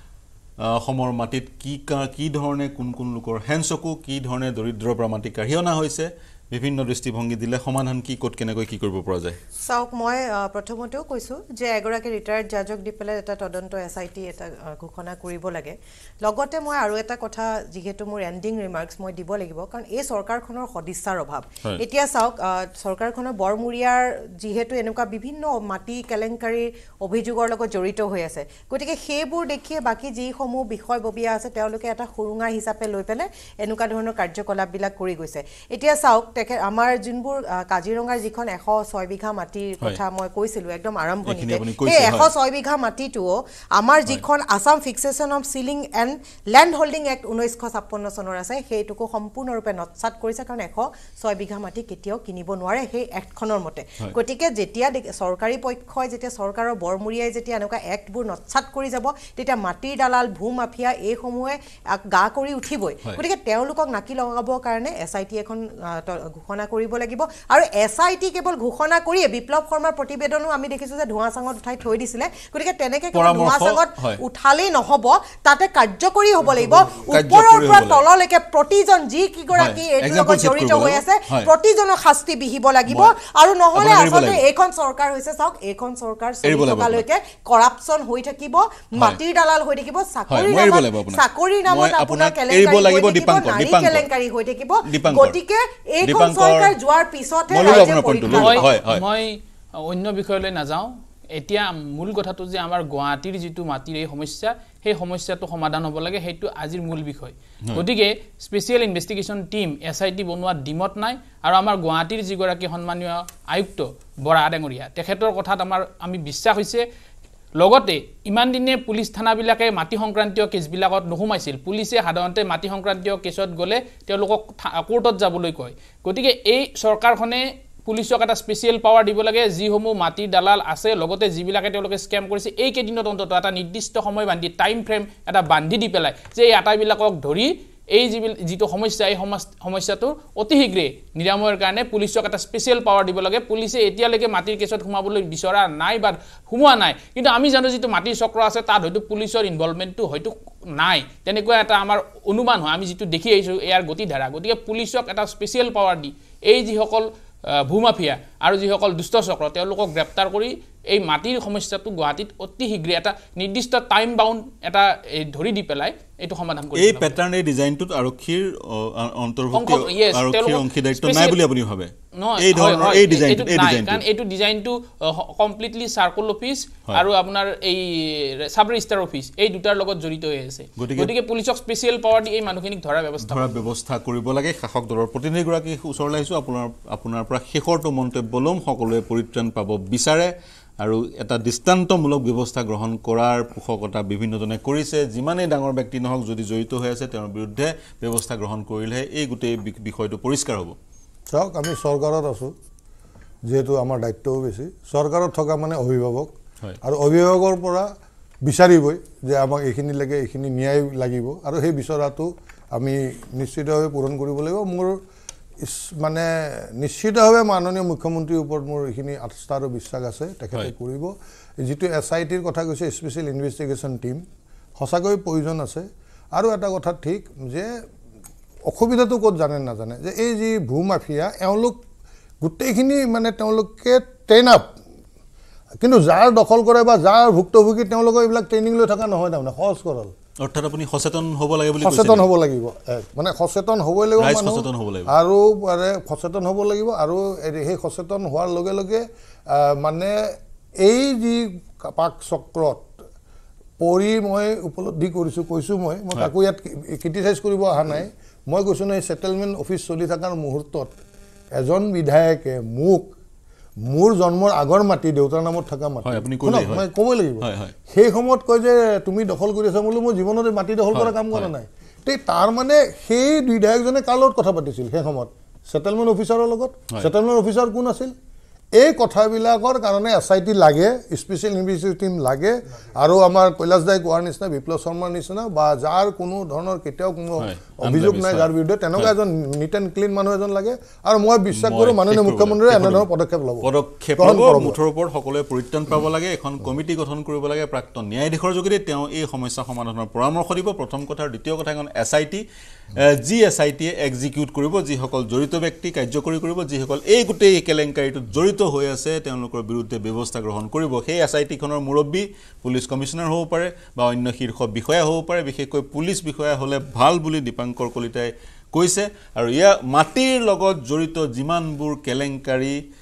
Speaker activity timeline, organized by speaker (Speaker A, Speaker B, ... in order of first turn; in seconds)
Speaker A: 0.6-9.4, 41.2-42.3, 73.1-74.2, 77.1-78.0, 79.5-81.5, 82.9-83.1, 83.7-84.4, 86.4-87.0, 90.3-94.1, 94.8-95.4, 96.0-96.8, 97.5-99.0, 166.8-174.0, 180.8-181.1, 183.2-200.8, 240.4-242.3, 244.2-245.1, 266.0-266.9, 267.4-267.7, 270.9-271.5, 287.4-289.1, 291.5-293.1, 293.6-302.4, 302.9-322.8
Speaker B: 9.6-98.7
Speaker C: 98.3-116.8, 117.6-167.1, 169.5-171.4, 172.2-183.6
Speaker D: 201.3-202.5, 203.5-206.3, 206.8-207.9, 208.4-214.9, 215.6-224.2, 224.8-227.7, 228.7-231.8, 232.4-234.7, 235.8-240.1, 241.8-252.9, 253.8-260.9, 261.5-263.1, 263.8-278.1, 278.8-294.8